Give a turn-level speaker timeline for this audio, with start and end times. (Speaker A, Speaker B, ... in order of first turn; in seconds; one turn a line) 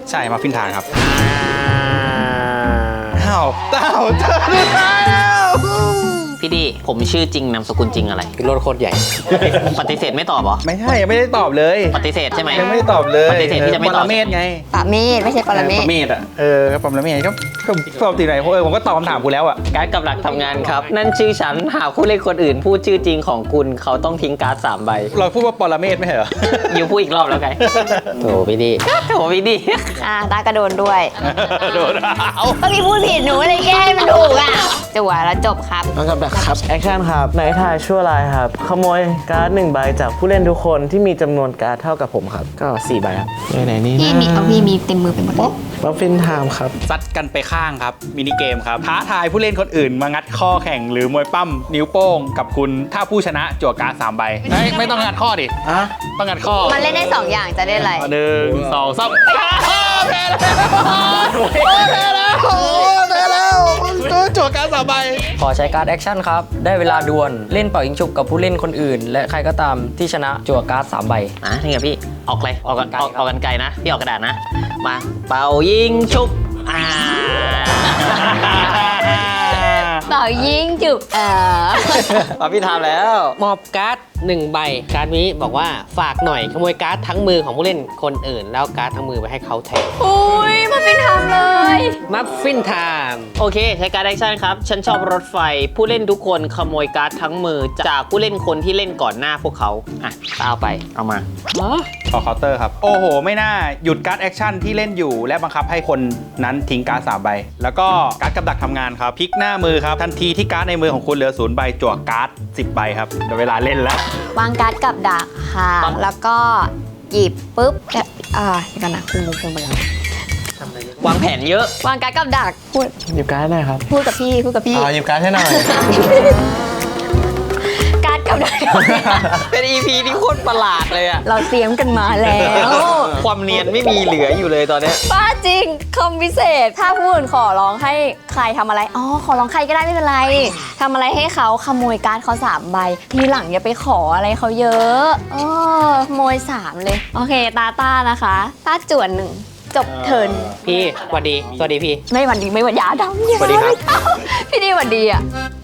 Speaker A: 0.1-0.8
Speaker B: 0.9-3.3
Speaker A: 3.2-6.3
Speaker C: 6.4-8.3
Speaker B: 8.4-9.5
Speaker C: 9.5-10.6
Speaker A: 10.6-11.9
Speaker C: 11.9-12.7
Speaker A: 12.5-14.6
Speaker C: 13.2-14.3
Speaker D: 14.7-15.9
Speaker A: 15.5-19.6
Speaker C: 19.7-25.1
Speaker B: 20.4-20.9
Speaker A: 25.1-26.9
Speaker C: 26.7-27.6
Speaker A: 27.6-28.1
Speaker B: 28.2-28.8
Speaker C: 28.8-30.0
Speaker D: 29.9-31.1
Speaker A: 31.2-32.6
Speaker D: 32.6-36.5
Speaker E: 35.9-44.7
Speaker D: 44.0-45.5
Speaker E: 45.3-46.8
Speaker A: 46.9-65.3
Speaker D: 54.5-55.0
Speaker E: 55.6-55.9
Speaker D: 56.6-58.1
Speaker F: 65.3-71.3
Speaker C: 71.4-78.8
Speaker F: 72.9-73.2
Speaker A: 78.1-80.0
Speaker D: 80.0-82.2
Speaker C: 82.0-83.4
Speaker B: 83.4-89.9
Speaker D: 90.0-92.0
Speaker B: 92.1-93.3
Speaker C: 93.4-101.2
Speaker B: 101.5-101.9
Speaker A: 102.1-114.0
Speaker D: 114.3-119.9
Speaker C: 121.0-121.7
Speaker D: 121.8-122.9
Speaker E: 123.0-123.8
Speaker D: 123.9-124.9
Speaker E: 124.7-125.9
Speaker D: 125.5-126.3
Speaker D: 127.7-129.4
Speaker E: 128.7-129.4
Speaker C: 129.5-131.2
Speaker D: 131.2-133.2
Speaker C: 132.5-135.0
Speaker D: 135.0-150.6
Speaker B: 150.6-152.0
Speaker D: 152.1-155.2
Speaker B: 153.4-153.8